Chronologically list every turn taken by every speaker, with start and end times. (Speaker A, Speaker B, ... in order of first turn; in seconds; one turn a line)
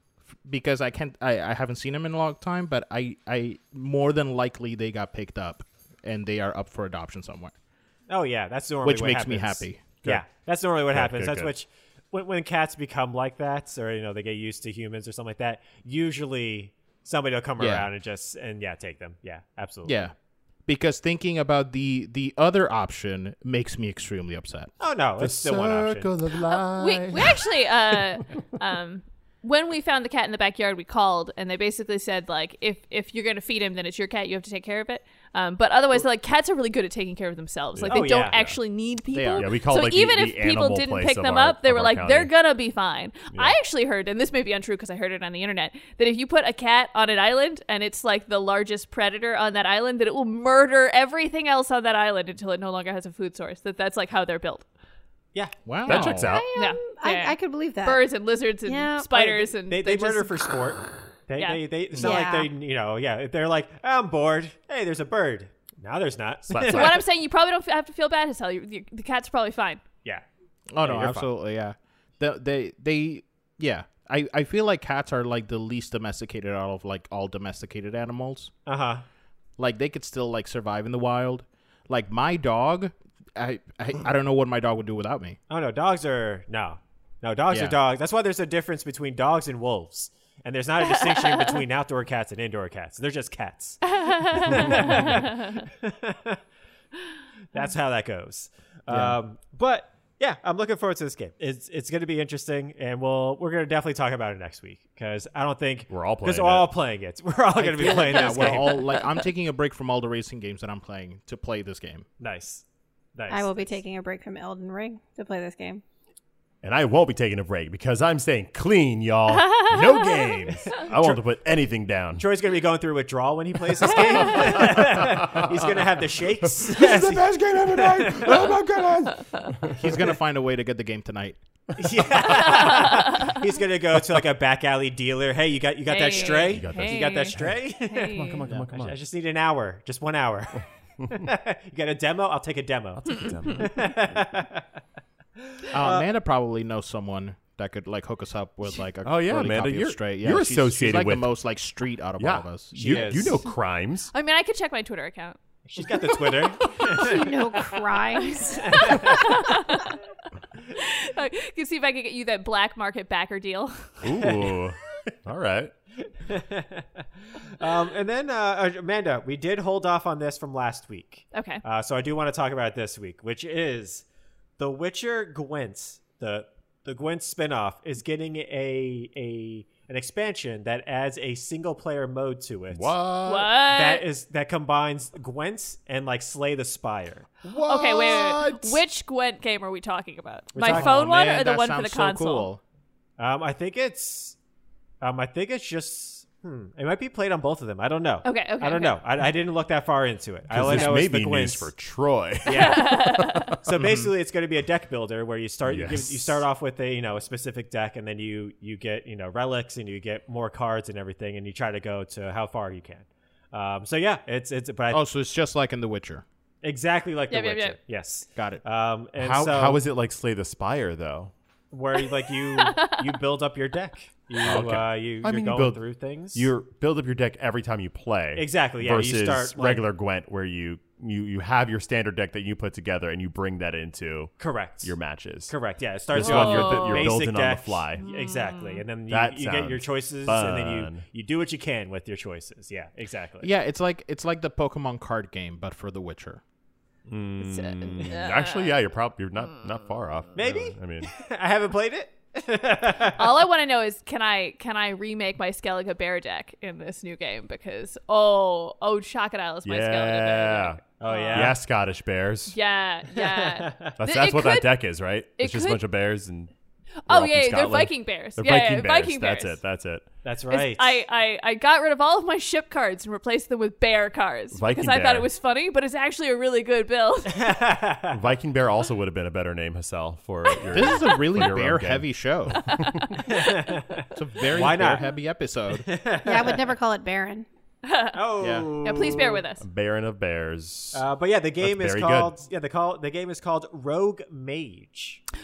Speaker A: 0.4-7.5
Speaker B: 8.1-20.1
Speaker A: 8.8-9.9
Speaker C: 10.0-10.3
Speaker C: 10.9-11.5
Speaker A: 17.6-17.9
Speaker A: 19.9-20.1
Speaker A: 20.6-24.7
Speaker B: 24.8-26.1
Speaker C: 25.2-27.6
Speaker D: 26.5-54.6
Speaker C: 37.7-38.6
Speaker B: 37.9-38.4
Speaker A: 39.1-39.5
Speaker C: 39.4-42.3
Speaker A: 55.6-56.4
Speaker C: 55.9-56.5
Speaker E: 55.9-58.0
Speaker D: 56.5-60.4
Speaker E: 58.6-59.1
Speaker B: 59.1-66.9
Speaker D: 61.4-62.1
Speaker E: 61.9-62.5
Speaker C: 66.5-67.0
Speaker D: 66.7-69.8
Speaker A: 70.7-78.5
Speaker B: 70.8-71.3
Speaker B: 78.7-79.0
Speaker A: 79.6-85.4
Speaker B: 85.5-96.4
Speaker A: 87.5-87.8
Speaker D: 94.0-95.5
Speaker B: 97.5-109.0
Speaker A: 98.9-99.2
Speaker C: 105.9-106.7
Speaker A: 107.5-112.0
Speaker B: 112.2-112.6
Speaker B: 113.2-113.7
Speaker E: 113.3-115.8
Speaker C: 116.6-122.2
Speaker D: 119.3-120.9
Speaker B: 122.2-128.5
Speaker C: 123.9-125.8
Speaker C: 126.5-129.9
Speaker A: 129.7-131.4
Speaker B: 131.8-144.7
Speaker D: 132.4-133.2
Speaker D: 135.9-138.4
Speaker C: 136.1-139.0
Speaker C: 141.0-141.3
Speaker C: 143.1-143.9
Speaker B: 145.4-146.1
Speaker A: 145.7-153.1
Speaker C: 149.0-151.3
Speaker C: 152.2-154.1
Speaker B: 152.7-153.4
Speaker D: 154.1-155.4
Speaker B: 155.7-157.2
Speaker C: 156.6-156.9
Speaker E: 156.9-159.2
Speaker D: 158.2-160.0
Speaker B: 158.6-159.3
Speaker D: 160.7-164.2
Speaker C: 164.0-165.7
Speaker B: 164.2-164.5
Speaker B: 166.0-174.0
Speaker D: 171.3-171.6
Speaker B: 174.6-182.9
Speaker C: 182.7-183.5
Speaker D: 183.2-184.0
Speaker B: 183.7-187.3
Speaker C: 187.4-188.8
Speaker D: 187.6-192.5
Speaker B: 190.5-191.0
Speaker A: 190.7-192.6
Speaker B: 193.2-194.4
Speaker B: 195.0-201.7
Speaker D: 198.2-199.0
Speaker C: 200.5-204.0
Speaker B: 202.4-202.9
Speaker D: 202.5-203.5
Speaker B: 203.6-215.0
Speaker C: 205.6-206.4
Speaker A: 214.9-216.2
Speaker B: 216.6-219.8
Speaker D: 217.3-217.8
Speaker A: 218.3-218.6
Speaker C: 219.2-221.3
Speaker B: 221.7-226.5
Speaker D: 222.5-223.0
Speaker C: 224.4-225.8
Speaker A: 224.4-224.8
Speaker C: 226.3-235.5
Speaker B: 228.3-229.8
Speaker B: 234.4-234.9
Speaker B: 235.5-243.5
Speaker C: 236.1-238.0
Speaker D: 236.2-237.1
Speaker D: 238.0-238.8
Speaker C: 239.1-241.0
Speaker A: 243.4-246.4
Speaker C: 247.1-251.1
Speaker D: 247.4-248.8
Speaker B: 250.3-253.2
Speaker D: 253.2-261.5
Speaker C: 259.6-260.8
Speaker B: 261.0-261.6
Speaker C: 261.3-262.6
Speaker D: 262.5-264.8
Speaker B: 263.1-263.9
Speaker C: 264.0-266.5
Speaker D: 265.4-265.8
Speaker D: 267.1-269.6
Speaker C: 267.1-270.1
Speaker B: 270.2-271.0
Speaker D: 270.5-277.5
Speaker C: 274.5-275.3
Speaker B: 277.3-278.2
Speaker C: 278.1-282.1
Speaker D: 280.5-281.2
Speaker A: 280.7-282.6
Speaker D: 282.6-283.4
Speaker C: 282.7-283.1
Speaker B: 283.2-285.1
Speaker A: 284.1-285.8
Speaker B: 285.7-286.7
Speaker E: 286.2-287.4
Speaker D: 287.8-288.2
Speaker B: 288.1-289.4
Speaker A: 288.4-288.7
Speaker D: 288.8-289.6
Speaker C: 289.6-291.0
Speaker B: 290.9-295.2
Speaker C: 291.6-292.4